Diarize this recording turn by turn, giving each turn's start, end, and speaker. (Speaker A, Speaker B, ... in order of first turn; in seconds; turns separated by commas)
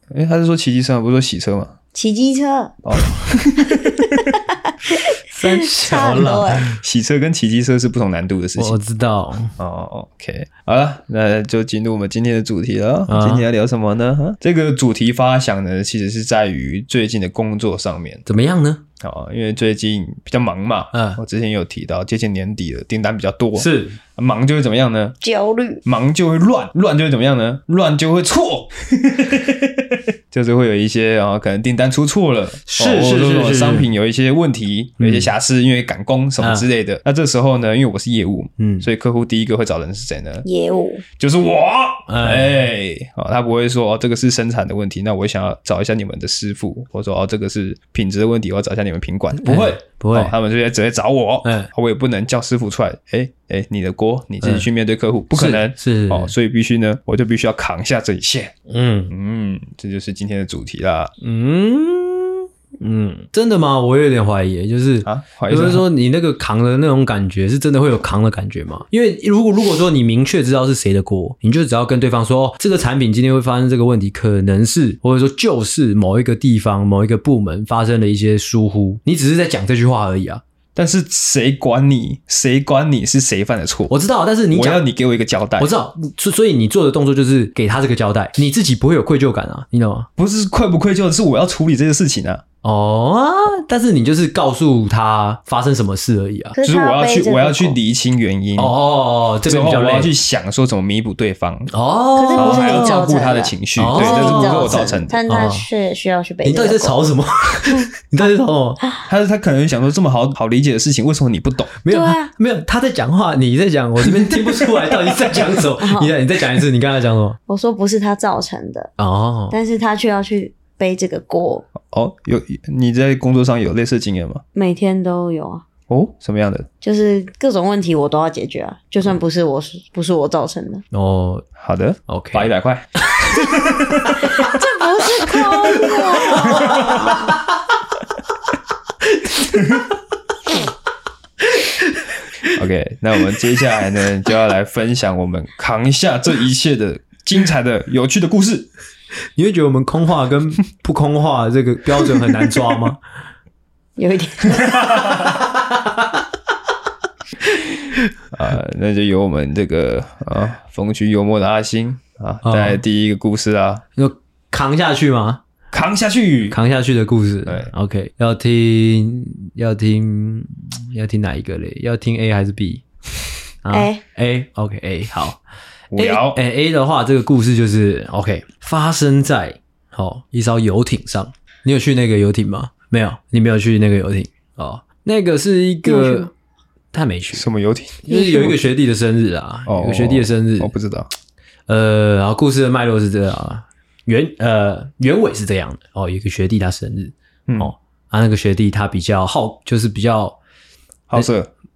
Speaker A: 0.1-1.7, Speaker B: 1.9-2.8, Speaker A: 2.8-4.3, Speaker B: 3.6-6.6, Speaker C: 5.3-6.8, Speaker A: 6.6-8.8, Speaker C: 8.6-9.5, Speaker A: 9.6-18.2, Speaker C: 13.1-13.4, Speaker C: 18.2-18.8, Speaker A: 19.0-25.1, Speaker C: 20.9-21.2, Speaker C: 23.6-24.0, Speaker B: 25.2-25.8, Speaker A: 25.8-40.4, Speaker C: 32.6-33.9, Speaker C: 35.0-35.3, Speaker C: 36.4-36.6, Speaker C: 38.6-38.9, Speaker B: 40.4-41.0, Speaker A: 41.2-58.5, Speaker C: 42.1-42.6, Speaker C: 49.4-50.3, Speaker C: 51.4-51.7, Speaker C: 55.3-56.3, Speaker C: 58.7-59.1, Speaker A: 59.1-61.1, Speaker C: 61.2-80.4, Speaker A: 65.0-65.8, Speaker A: 80.7-83.9, Speaker C: 83.9-84.8, Speaker A: 84.5-85.7, Speaker C: 85.6-90.1, Speaker A: 90.2-92.4, Speaker C: 92.6-96.5, Speaker B: 96.5-97.8, Speaker A: 96.6-98.8, Speaker C: 98.6-100.1, Speaker A: 99.4-101.7, Speaker C: 101.7-103.1, Speaker B: 102.1-107.1, Speaker A: 102.3-105.2, Speaker C: 103.8-105.7, Speaker C: 106.4-108.8, Speaker A: 109.1-111.7, Speaker C: 111.8-117.4, Speaker B: 111.9-112.3, Speaker A: 114.0-115.6, Speaker B: 115.8-116.1, Speaker B: 117.5-118.9, Speaker C: 119.0-119.5, Speaker B: 119.5-121.7, Speaker A: 121.8-124.4, Speaker B: 124.5-125.6, Speaker A: 125.9-126.7, Speaker B: 126.8-130.8, Speaker C: 130.9-131.4, Speaker A: 131.6-134.3, Speaker C: 132.1-132.5, Speaker C: 133.1-133.5, Speaker B: 134.2-137.3, Speaker C: 135.5-137.4, Speaker A: 136.5-137.1, Speaker C: 139.1-139.8, Speaker C: 141.5-142.5, Speaker A: 142.5-148.7, Speaker C: 149.3-153.0, Speaker B: 154.0-155.1, Speaker A: 154.7-154.9, Speaker C: 155.3-156.2, Speaker A: 158.3-163.8, Speaker C: 162.4-162.8, Speaker C: 163.9-165.4, Speaker A: 165.7-166.6, Speaker C: 166.5-172.8, Speaker A: 167.4-167.7, Speaker C: 173.6-175.4, Speaker B: 173.7-174.0, Speaker A: 175.9-176.4, Speaker C: 176.2-186.3, Speaker B: 185.8-186.3, Speaker C: 186.9-187.4, Speaker A: 187.3-188.1, Speaker C: 188.1-190.7, Speaker B: 188.1-188.5, Speaker A: 189.7-191.1, Speaker C: 191.7-200.4, Speaker A: 201.1-201.5